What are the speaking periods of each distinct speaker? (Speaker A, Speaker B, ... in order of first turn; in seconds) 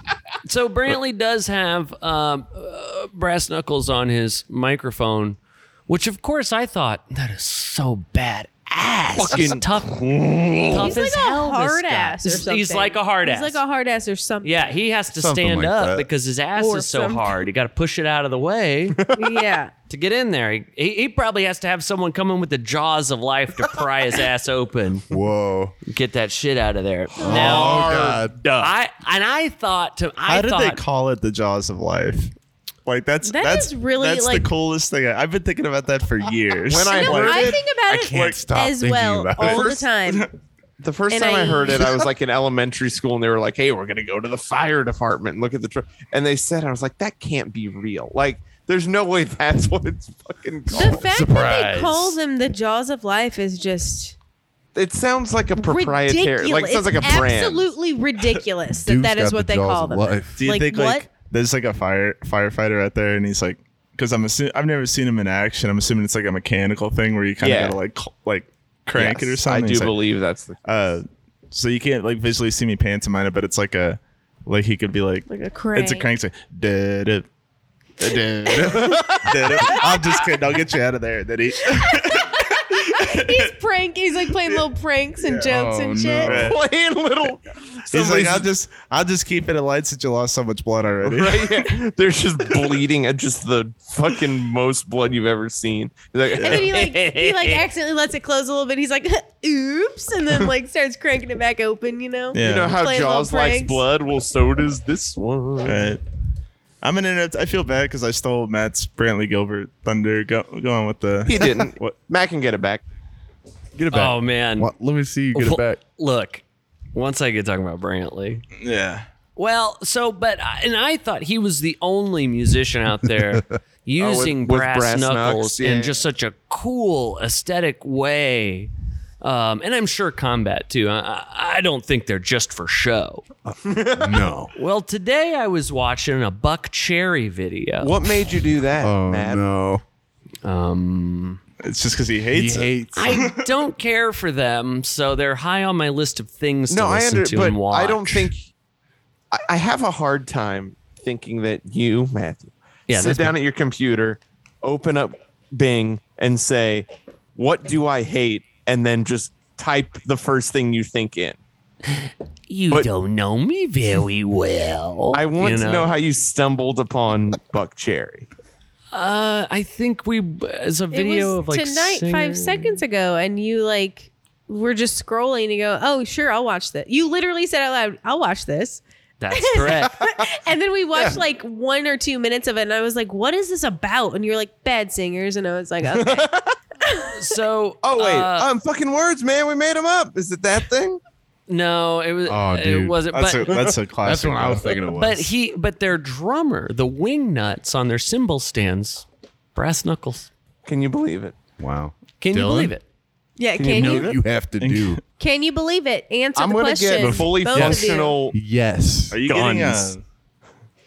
Speaker A: 0.4-13.6, 14.4-19.0, 19.9-25.1, 25.9-30.8, 113.9-114.7, 115.3-118.5, 119.4-133.3, 134.6-138.1, 140.4-141.4, 142.9-148.3, 152.9-153.4, 161.9-165.9, 168.9-172.8, 179.2-180.0, 187.1-188.5, 191.5-193.5, 194.9-200.3, 202.2-202.8, 203.6-204.1
Speaker B: 9.2-10.9, 19.0-19.4, 27.2-28.6, 36.7-37.7, 39.4-39.8, 40.8-51.1, 54.8-57.7, 67.4-67.8, 69.0-70.7, 78.5-79.8, 86.3-88.5, 91.0-97.6, 102.4-105.9, 111.3-112.8, 124.0-126.0, 133.7-134.3, 137.8-139.4, 146.7-148.5, 149.3-161.4, 165.1-168.3, 185.9-186.6, 187.8-191.0, 200.7-201.4, 203.7-204.1, 206.3-208.3
Speaker C: 10.7-14.6, 16.6-17.4, 19.1-19.7, 33.2-34.5, 36.8-40.3, 41.1-41.9, 50.7-54.2, 55.6-61.1, 75.3-76.1, 79.6-80.1, 81.6-86.3, 96.4-103.8, 170.9-186.3, 186.8-187.2, 203.4-204.2, 205.2-208.2
Speaker D: 15.2-16.1, 25.1-25.8, 27.2-28.7, 37.9-39.7, 50.7-52.2, 58.8-60.4, 85.5-86.5, 113.8-115.8, 133.9-134.5, 138.8-139.8, 142.3-143.3, 192.3-193.0, 194.0-195.3, 201.6-202.8, 203.7-205.0, 207.4-209.9
Speaker E: 30.3-32.3, 32.9-37.6, 38.1-38.4, 39.5-40.3, 60.4-70.0, 70.7-77.3, 78.0-83.5, 85.2-85.5, 86.2-86.6, 87.9-91.7, 102.3-102.8, 105.6-106.0, 106.8-112.0, 118.6-119.1, 141.6-143.4, 193.1-194.8, 204.6-205.0, 209.1-210.0